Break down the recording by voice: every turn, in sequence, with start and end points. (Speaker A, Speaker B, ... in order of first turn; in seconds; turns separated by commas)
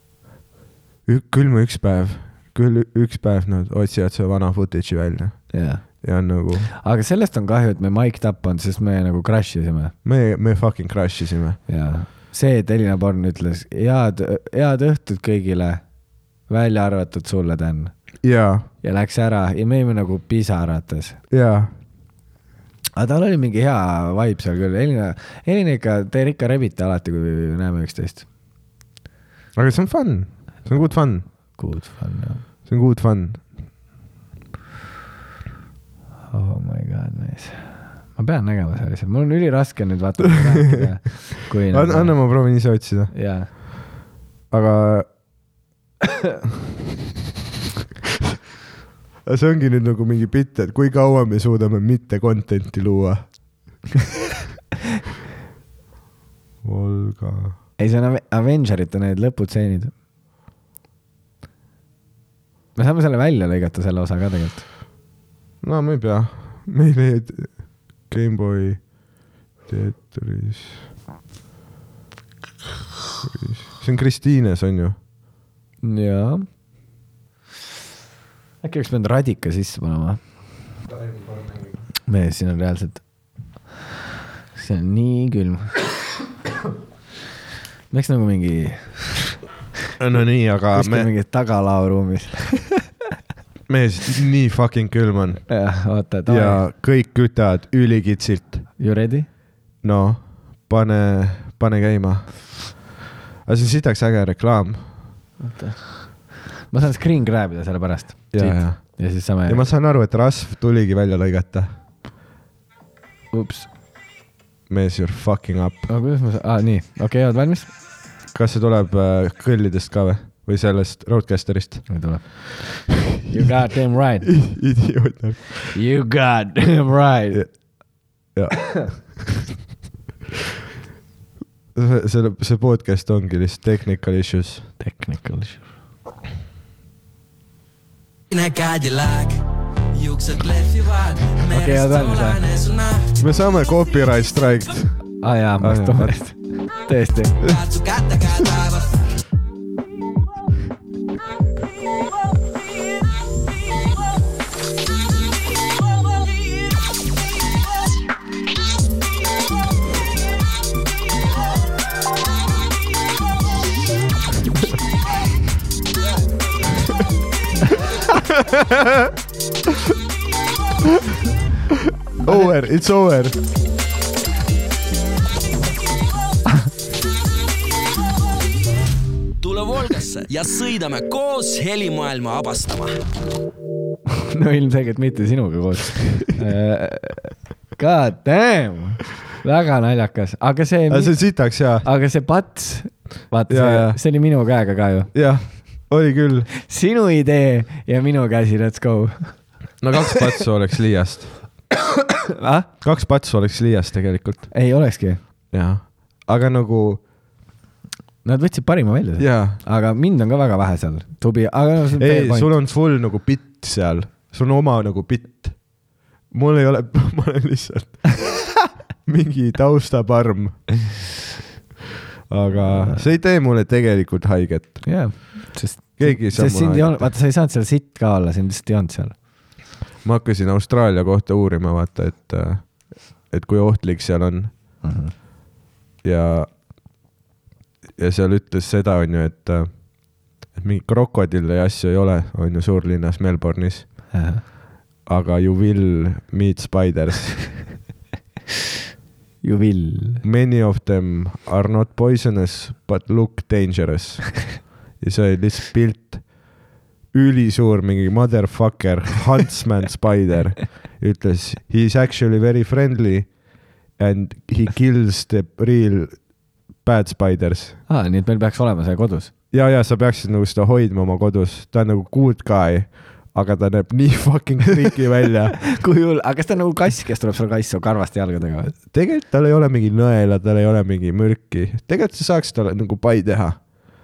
Speaker A: 1.1-6.7, Speaker B: 5.5-6.0, Speaker B: 6.7-9.9, Speaker A: 10.0-11.6, Speaker B: 11.7-15.9, Speaker B: 16.4-17.9, Speaker A: 18.2-18.6, Speaker B: 18.8-21.2, Speaker A: 21.3-21.7, Speaker B: 22.9-28.2, Speaker A: 29.6-31.2, Speaker B: 31.5-32.4, Speaker A: 32.7-33.4, Speaker B: 36.3-42.6, Speaker A: 40.4-40.8, Speaker A: 41.7-43.1, Speaker B: 43.1-43.5, Speaker A: 44.5-45.1, Speaker A: 49.2-53.3, Speaker A: 56.6-57.6, Speaker B: 57.8-59.9, Speaker B: 62.7-64.6, Speaker A: 65.6-68.9, Speaker A: 69.6-70.8, Speaker A: 73.2-75.0, Speaker B: 75.8-76.5, Speaker B: 78.6-80.2, Speaker A: 81.0-81.4, Speaker B: 82.1-83.0, Speaker B: 84.5-85.8, Speaker B: 87.9-89.4, Speaker A: 90.0-91.1, Speaker B: 90.7-92.9, Speaker A: 93.7-95.5, Speaker B: 95.5-96.6, Speaker A: 96.3-98.7, Speaker B: 98.8-99.3, Speaker A: 99.8-102.8, Speaker A: 103.5-104.8, Speaker B: 105.4-109.7, Speaker A: 108.3-111.7, Speaker B: 113.3-113.7, Speaker A: 114.7-115.9, Speaker B: 115.9-117.7, Speaker A: 118.3-122.3, Speaker B: 121.9-124.4, Speaker A: 124.2-125.8, Speaker B: 125.7-127.5, Speaker A: 128.3-129.3, Speaker A: 131.7-134.7, Speaker B: 134.8-135.7, Speaker C: 138.3-139.4, Speaker C: 139.9-143.2, Speaker B: 141.5-142.4, Speaker A: 143.2-146.2, Speaker B: 145.2-147.4, Speaker C: 147.4-148.9, Speaker A: 168.4-168.9, Speaker A: 172.2-173.3, Speaker B: 172.2-172.5, Speaker C: 179.4-183.0, Speaker B: 184.1-195.1, Speaker A: 190.9-191.8, Speaker A: 193.5-194.0, Speaker A: 195.1-196.5, Speaker B: 196.6-200.1, Speaker A: 199.8-201.3, Speaker B: 202.3-202.7, Speaker A: 202.8-204.5, Speaker B: 204.5-205.2, Speaker A: 205.5-207.0, Speaker B: 208.2-212.5, Speaker A: 209.2-209.6, Speaker A: 212.0-215.6, Speaker A: 216.3-221.1, Speaker A: 222.3-225.2, Speaker B: 222.6-223.0, Speaker B: 224.8-229.2, Speaker A: 226.0-227.1, Speaker A: 230.0-234.6, Speaker B: 234.8-235.1, Speaker A: 236.0-236.5, Speaker A: 238.0-244.1, Speaker B: 244.1-244.4, Speaker A: 245.1-247.7, Speaker B: 249.4-250.2, Speaker A: 250.2-256.4, Speaker A: 257.1-263.4, Speaker A: 263.9-266.2, Speaker A: 266.8-267.8, Speaker B: 267.9-269.3, Speaker A: 269.5-275.6, Speaker B: 275.6-278.8, Speaker A: 278.9-283.6